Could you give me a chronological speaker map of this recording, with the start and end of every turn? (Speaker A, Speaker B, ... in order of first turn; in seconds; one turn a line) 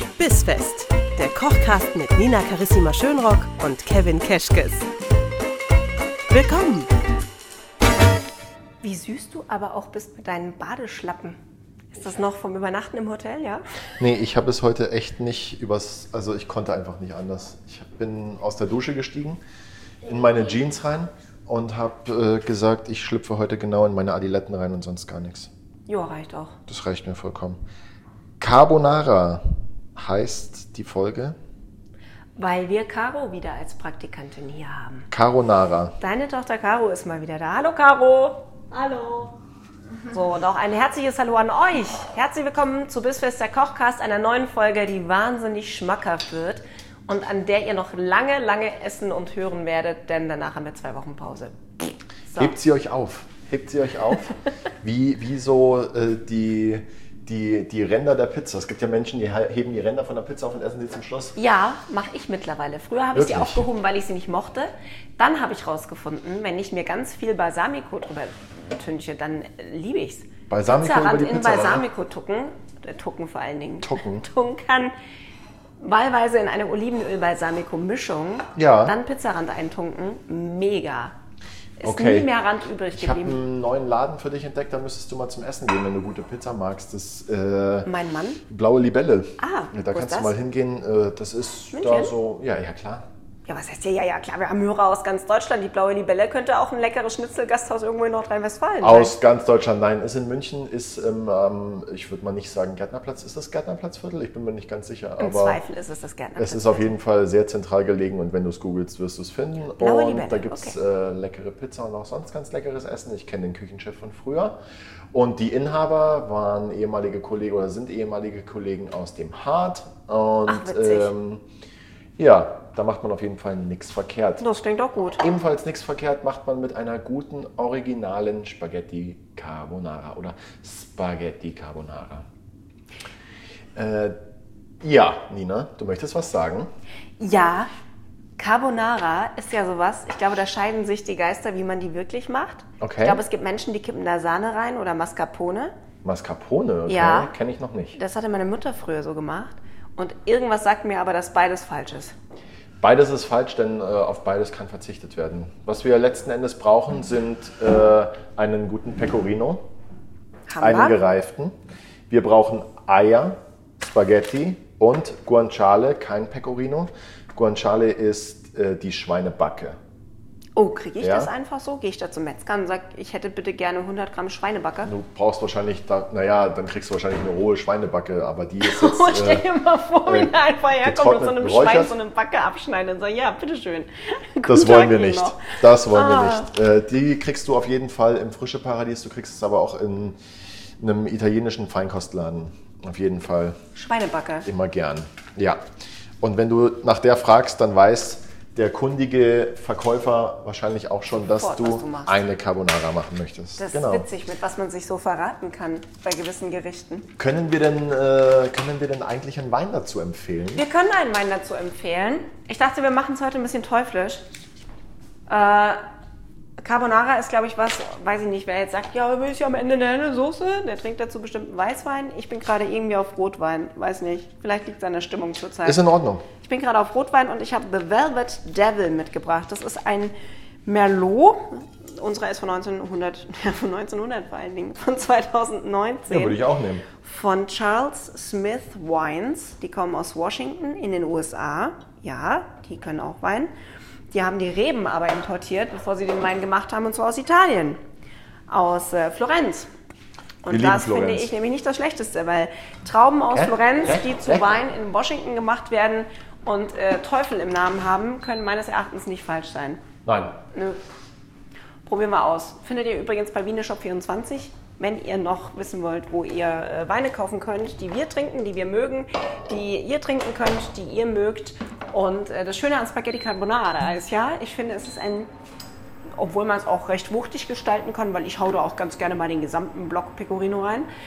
Speaker A: 0.2-4.9
Speaker A: 6.3-6.9
Speaker B: 8.8-11.4
Speaker B: 11.9-13.6
Speaker C: 14.0-19.4
Speaker C: 20.0-25.5
Speaker B: 25.9-26.6
Speaker C: 26.7-27.6
Speaker C: 28.4-29.4
Speaker C: 29.9-31.4
Speaker B: 32.4-35.1
Speaker C: 35.1-35.9
Speaker B: 36.0-39.3
Speaker B: 40.0-52.5
Speaker C: 52.4-61.4
Speaker B: 61.4-74.9
Speaker C: 63.1-63.6
Speaker C: 70.5-71.8
Speaker C: 73.8-74.3
Speaker B: 75.8-81.1
Speaker C: 78.5-79.0
Speaker B: 81.8-83.4
Speaker C: 81.8-82.3
Speaker C: 82.9-87.9
Speaker B: 87.8-88.4
Speaker C: 88.5-93.0
Speaker B: 89.4-90.3
Speaker B: 91.7-92.1
Speaker B: 93.5-99.1
Speaker C: 98.8-105.6
Speaker B: 105.2-106.9
Speaker C: 106.4-114.5
Speaker B: 109.8-110.8
Speaker C: 115.1-121.4
Speaker B: 120.5-121.1
Speaker C: 122.2-124.4
Speaker B: 124.4-125.2
Speaker C: 125.2-132.2
Speaker C: 133.8-134.2
Speaker C: 134.8-136.7
Speaker B: 137.2-137.7
Speaker B: 138.4-145.7
Speaker C: 142.8-143.2
Speaker C: 146.0-148.0
Speaker B: 146.9-147.3
Speaker B: 147.9-152.1
Speaker C: 152.8-159.6
Speaker B: 160.5-160.9
Speaker C: 160.6-161.6
Speaker C: 162.1-169.8
Speaker B: 170.6-174.9
Speaker C: 171.0-171.3
Speaker C: 174.8-179.4
Speaker B: 178.6-186.5
Speaker C: 180.1-181.9
Speaker C: 184.4-190.2
Speaker C: 190.8-193.6
Speaker B: 193.7-194.5
Speaker C: 194.4-195.6
Speaker C: 196.2-204.1
Speaker B: 201.3-202.2
Speaker B: 203.6-207.1
Speaker C: 207.2-210.6
Speaker B: 210.5-214.2
Speaker B: 215.3-215.8
Speaker B: 216.6-225.8
Speaker C: 225.6-226.2
Speaker B: 226.4-230.1
Speaker B: 230.6-236.4
Speaker C: 236.1-236.8
Speaker B: 237.0-243.5
Speaker B: 244.1-247.8
Speaker B: 248.5-249.7
Speaker B: 250.4-259.8
Speaker C: 250.5-251.3
Speaker C: 253.3-254.5
Speaker C: 260.0-260.4
Speaker B: 260.5-260.8
Speaker B: 261.9-275.3
Speaker B: 276.1-280.9